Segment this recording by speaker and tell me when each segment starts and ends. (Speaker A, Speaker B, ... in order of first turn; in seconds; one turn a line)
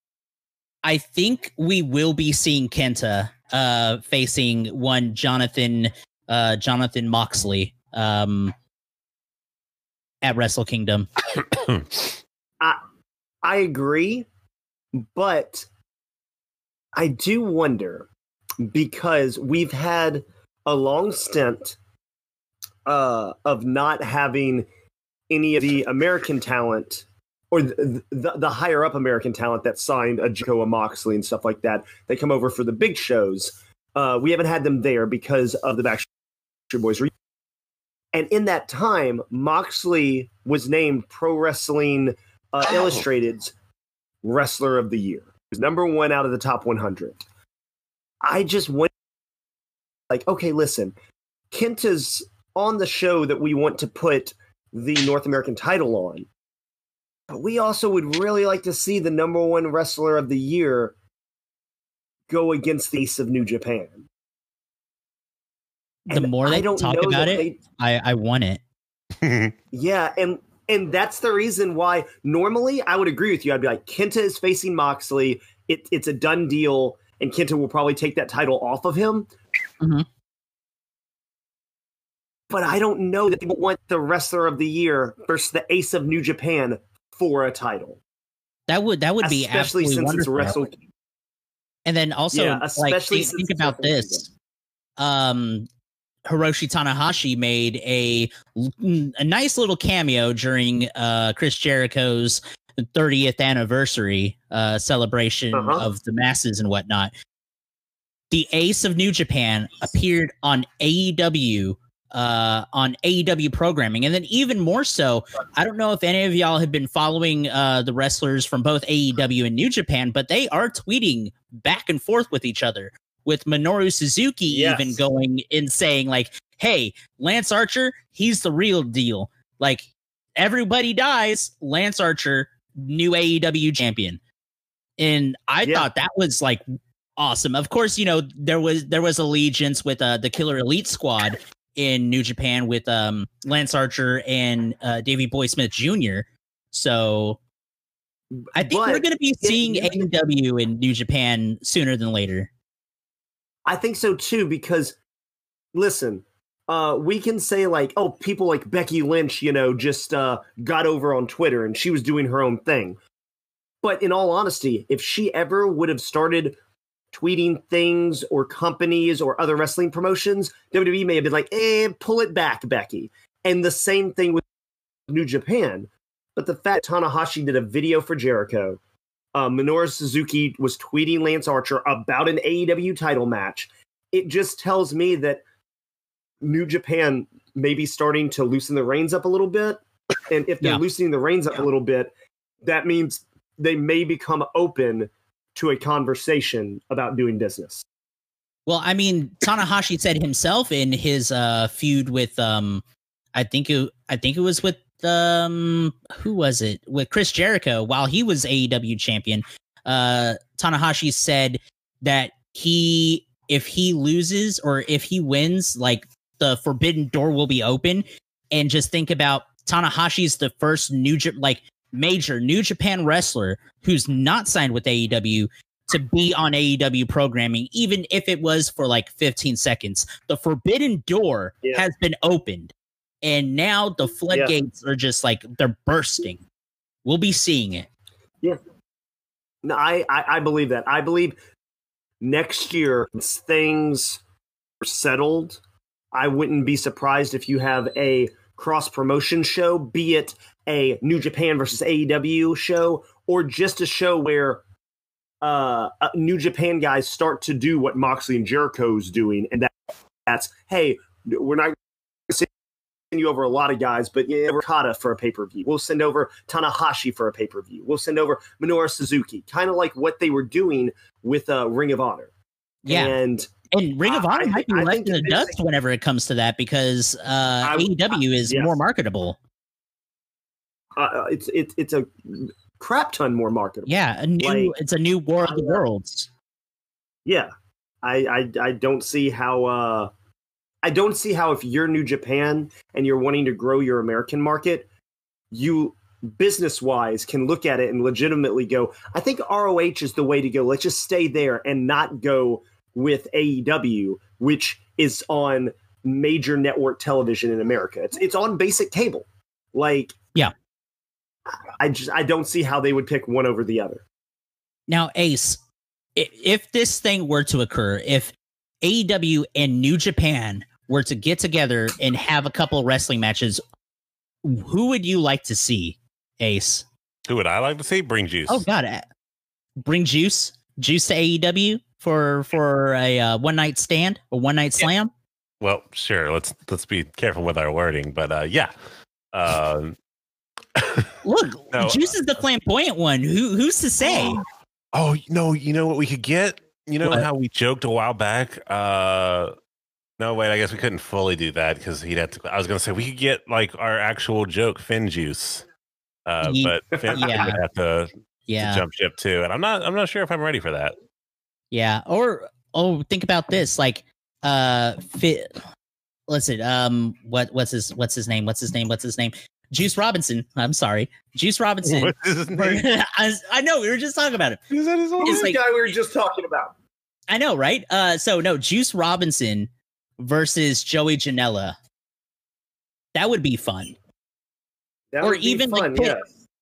Speaker A: 0.8-8.5
Speaker A: 10.2-11.1
Speaker B: 11.3-12.2
Speaker C: 13.4-14.3
Speaker C: 14.9-15.7
Speaker C: 16.9-18.1
Speaker C: 18.6-21.8
Speaker C: 22.9-24.7
Speaker C: 25.3-36.1
Speaker C: 36.7-37.1
Speaker C: 38.1-43.5
Speaker C: 44.2-47.2
Speaker C: 48.2-48.9
Speaker C: 50.1-50.9
Speaker C: 51.5-56.3
Speaker C: 57.3-60.9
Speaker C: 62.3-64.0
Speaker A: 66.0-68.6
Speaker C: 66.1-67.6
Speaker B: 69.2-69.5
Speaker C: 69.7-79.3
Speaker A: 79.8-80.0
Speaker C: 82.5-88.0
Speaker A: 88.7-90.5
Speaker C: 89.2-90.8
Speaker A: 91.8-94.3
Speaker C: 92.3-94.2
Speaker A: 95.0-95.7
Speaker A: 96.3-107.1
Speaker C: 105.5-105.9
Speaker A: 108.3-134.2
Speaker C: 124.5-125.0
Speaker A: 135.0-136.6
Speaker C: 135.6-135.9
Speaker A: 137.2-147.4
Speaker C: 148.4-150.1
Speaker A: 148.5-152.5
Speaker C: 153.7-155.0
Speaker C: 155.7-163.0
Speaker C: 163.8-166.6
Speaker C: 167.1-174.4
Speaker C: 175.1-178.8
Speaker C: 179.3-185.4
Speaker C: 186.4-192.1
Speaker C: 192.6-197.8
Speaker A: 198.7-202.8
Speaker A: 203.3-236.4
Speaker A: 237.0-237.9
Speaker C: 239.6-241.4
Speaker C: 242.2-244.2
Speaker C: 244.8-245.6
Speaker C: 246.1-254.6
Speaker C: 255.4-259.7
Speaker C: 260.2-261.8
Speaker C: 263.1-272.3
Speaker A: 272.8-273.1
Speaker C: 272.9-273.5
Speaker A: 273.7-279.4
Speaker C: 274.0-275.6
Speaker C: 277.6-278.7
Speaker C: 280.9-284.7
Speaker A: 283.9-286.3
Speaker C: 285.4-285.8
Speaker C: 288.0-290.1
Speaker C: 290.8-294.9
Speaker C: 295.5-310.1
Speaker C: 311.8-314.0
Speaker A: 314.9-315.6
Speaker A: 316.1-323.6
Speaker A: 324.4-326.9
Speaker B: 327.3-328.6
Speaker A: 328.5-329.1
Speaker A: 329.8-335.1
Speaker B: 335.6-338.7
Speaker B: 339.3-339.9
Speaker B: 340.8-341.1
Speaker A: 341.2-344.4
Speaker B: 341.7-342.1
Speaker B: 344.1-344.4
Speaker B: 344.9-349.5
Speaker B: 350.2-355.7
Speaker B: 356.2-360.9
Speaker A: 356.4-357.6
Speaker C: 357.0-357.5
Speaker A: 358.5-358.8
Speaker A: 361.7-365.5
Speaker A: 366.3-374.6
Speaker B: 371.8-372.9
Speaker B: 374.7-375.5
Speaker C: 375.2-376.7
Speaker A: 375.2-375.6
Speaker A: 377.3-381.8
Speaker A: 383.1-383.9
Speaker C: 385.1-386.2
Speaker A: 385.2-386.2